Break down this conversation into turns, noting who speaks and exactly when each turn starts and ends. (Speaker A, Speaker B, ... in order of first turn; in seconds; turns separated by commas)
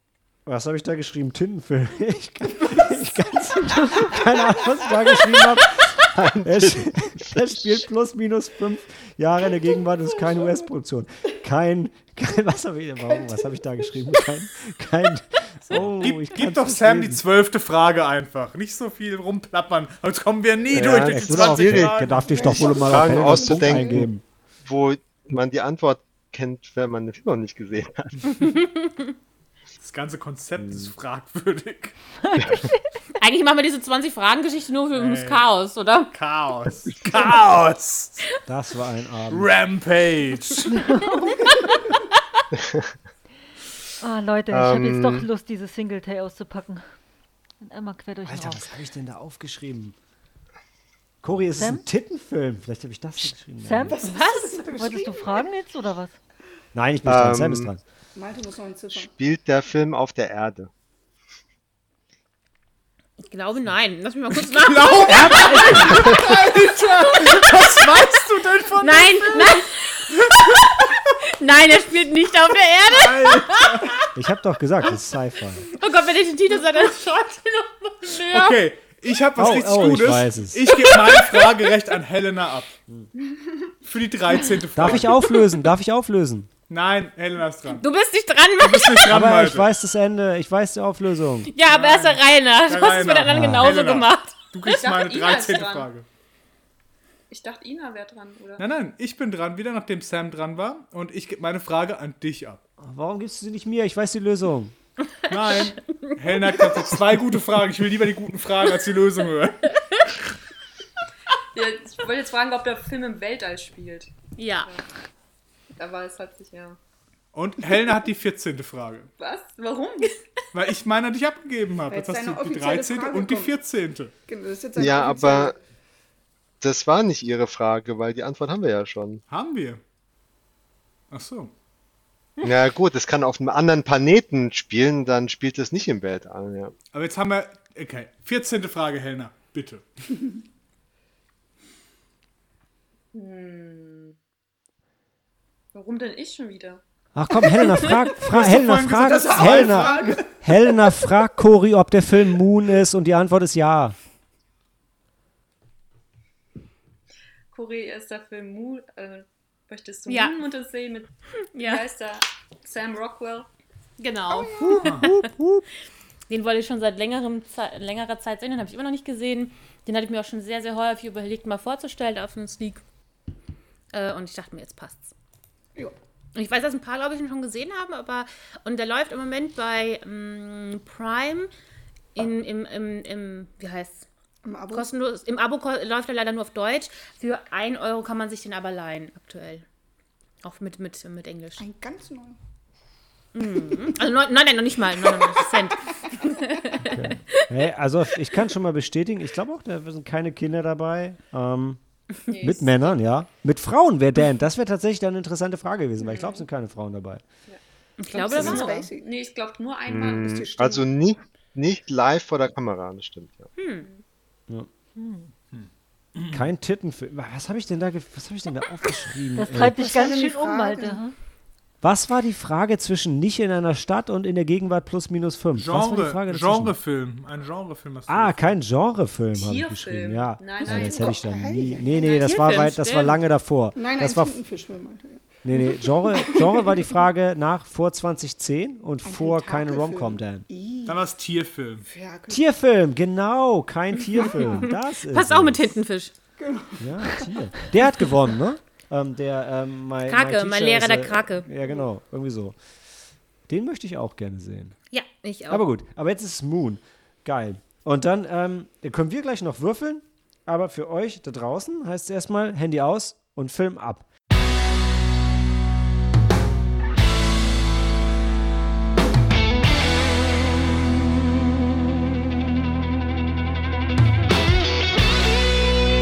Speaker A: 0.5-17.2, Speaker B: 6.1-7.7, Speaker C: 13.1-14.3, Speaker D: 15.7-22.4, Speaker B: 20.7-24.1, Speaker A: 20.8-24.2, Speaker C: 22.1-24.0, Speaker B: 24.6-28.5, Speaker E: 28.4-29.1, Speaker D: 29.8-31.9, Speaker B: 30.6-30.9, Speaker F: 32.2-32.8, Speaker E: 33.1-36.1, Speaker D: 34.9-35.5, Speaker D: 36.1-38.2, Speaker A: 38.4-39.5, Speaker D: 39.3-40.9, Speaker B: 42.5-42.9, Speaker F: 44.0-47.0, Speaker B: 44.5-45.3, Speaker F: 47.6-48.8, Speaker A: 48.2-50.0, Speaker A: 51.2-53.9, Speaker F: 51.5-51.8, Speaker F: 53.6-54.1, Speaker C: 53.9-55.5, Speaker E: 54.0-54.7, Speaker F: 54.7-56.2, Speaker A: 56.7-57.8, Speaker B: 57.0-57.7, Speaker C: 58.1-59.1, Speaker B: 58.9-60.7, Speaker E: 63.3-66.4, Speaker D: 64.4-69.6, Speaker A: 65.1-66.4, Speaker E: 67.1-67.8, Speaker E: 68.8-74.1, Speaker D: 70.2-70.6, Speaker D: 72.9-74.0, Speaker A: 74.1-75.7, Speaker E: 75.7-78.6, Speaker D: 78.3-82.8, Speaker A: 79.3-80.7, Speaker E: 80.7-81.7, Speaker D: 83.8-85.3, Speaker A: 84.7-86.5, Speaker E: 85.0-85.4, Speaker D: 86.7-87.8, Speaker E: 87.7-89.2, Speaker D: 88.6-89.7, Speaker A: 89.1-91.5, Speaker E: 91.5-94.4, Speaker D: 91.7-96.0, Speaker A: 93.2-93.7, Speaker G: 94.6-95.9, Speaker G: 97.3-98.7, Speaker D: 98.6-102.6, Speaker A: 102.8-104.7, Speaker E: 105.0-106.7, Speaker D: 105.3-109.6, Speaker E: 109.7-110.1, Speaker G: 111.5-114.1, Speaker E: 114.4-114.8, Speaker G: 115.7-116.8, Speaker D: 117.3-119.1, Speaker G: 119.2-120.2, Speaker D: 120.5-124.1, Speaker C: 121.9-123.6, Speaker C: 124.2-125.6, Speaker B: 124.8-125.5, Speaker B: 126.6-129.2, Speaker D: 129.3-129.8, Speaker D: 131.1-131.5, Speaker B: 132.4-136.7, Speaker D: 136.9-139.8, Speaker G: 143.1-144.2, Speaker G: 145.7-146.8, Speaker A: 147.1-153.9, Speaker G: 147.5-147.8, Speaker D: 148.2-150.1, Speaker C: 148.9-150.5, Speaker G: 157.5-163.5, Speaker E: 160.1-160.3, Speaker E: 161.5-161.8, Speaker E: 164.0-165.2, Speaker A: 164.6-165.6, Speaker D: 164.8-165.1, Speaker E: 166.3-172.8, Speaker E: 173.9-175.1, Speaker E: 176.3-181.5, Speaker E: 182.1-184.1, Speaker C: 184.4-184.9, Speaker E: 184.7-189.6, Speaker E: 190.4-191.7, Speaker C: 191.6-192.4, Speaker E: 193.3-197.4, Speaker A: 196.9-201.8, Speaker G: 202.2-202.9, Speaker A: 202.3-207.2, Speaker G: 206.1-206.4, Speaker E: 208.0-208.9, Speaker C: 208.1-209.1, Speaker G: 208.1-210.4, Speaker B: 209.9-213.5, Speaker C: 210.3-210.8, Speaker E: 213.6-213.9, Speaker F: 214.9-215.3, Speaker D: 215.5-216.4, Speaker A: 216.3-219.9, Speaker F: 219.3-221.1, Speaker C: 219.8-221.0, Speaker A: 221.8-226.7, Speaker D: 225.5-228.4, Speaker A: 228.1-234.3, Speaker G: 229.3-231.4, Speaker C: 230.6-232.5, Speaker E: 231.9-233.2, Speaker C: 233.7-236.6, Speaker A: 235.4-240.4, Speaker C: 239.0-241.0, Speaker D: 240.8-241.8, Speaker C: 241.8-242.4, Speaker A: 242.3-245.6, Speaker C: 244.2-244.5, Speaker E: 244.3-246.1, Speaker C: 246.4-247.4, Speaker A: 246.8-252.6, Speaker E: 250.1-251.5, Speaker A: 253.5-254.7, Speaker E: 254.9-255.7, Speaker A: 255.5-264.1